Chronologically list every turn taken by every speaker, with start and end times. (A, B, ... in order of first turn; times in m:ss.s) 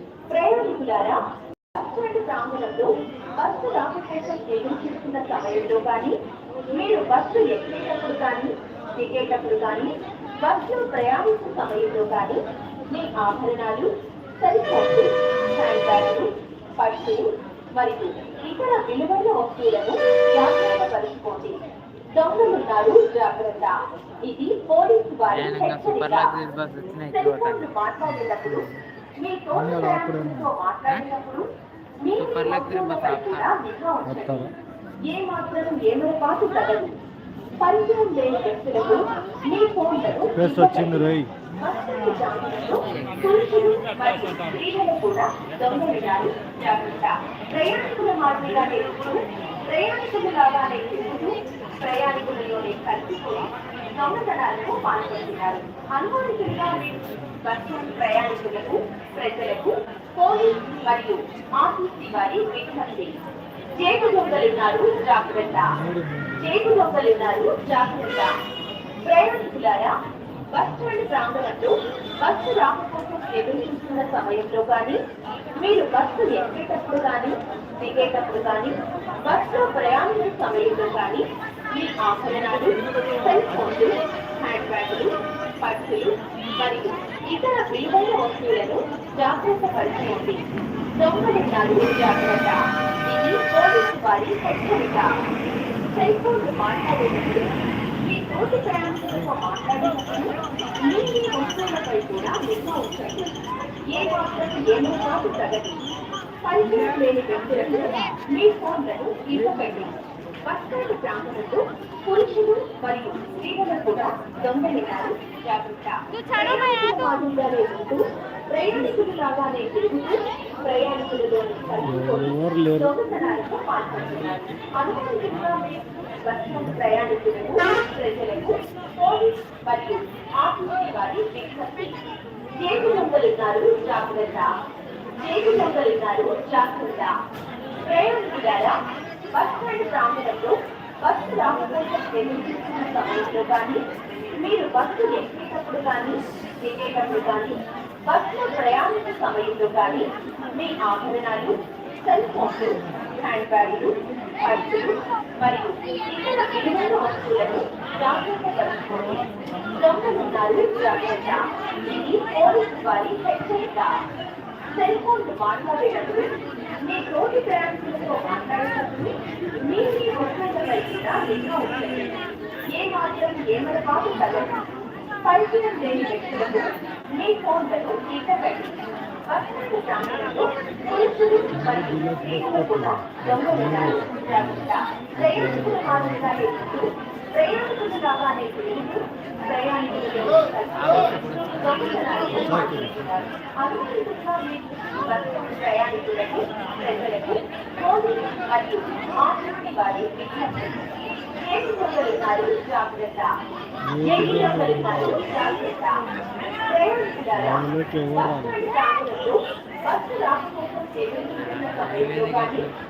0:00.3-0:01.2 A
0:01.8-0:06.2 A
0:06.7-0:21.6 A
0:22.2-0:26.4 A
0:25.3-0:27.7 B
0:27.1-0:28.7 A
0:28.3-0:28.7 C
0:29.2-0:31.5 A
0:29.5-0:30.5 C
0:32.0-0:34.5 A
0:32.2-0:33.5 B
0:34.0-0:34.5 C
0:35.0-0:37.0 A
0:37.6-0:41.0 A
0:40.3-0:41.3 C
0:41.6-1:03.1 A
1:03.8-1:05.8 A
1:05.7-1:06.7 C
1:06.4-1:08.3 A
1:09.0-1:10.0 A
1:10.5-1:15.0 A
1:15.6-1:30.4 A
1:31.0-1:35.1 A
1:35.9-1:43.4 A
1:43.9-1:45.8 A
1:46.4-2:12.0 A
2:01.8-2:03.0 C
2:12.6-2:14.5 A
2:15.2-2:17.1 A
2:17.9-2:18.8 A
2:19.3-2:23.8 A
2:24.4-2:44.0 A
2:44.7-2:52.2 A
2:52.7-2:54.6 A
2:55.2-3:20.9 A
3:01.5-3:06.6 C
3:10.8-3:12.6 B
3:12.3-3:12.9 C
3:21.4-3:23.3 A
3:23.8-3:25.3 C
3:24.0-3:26.0 A
3:26.5-3:32.7 A
3:27.4-3:28.6 C
3:31.4-3:32.7 B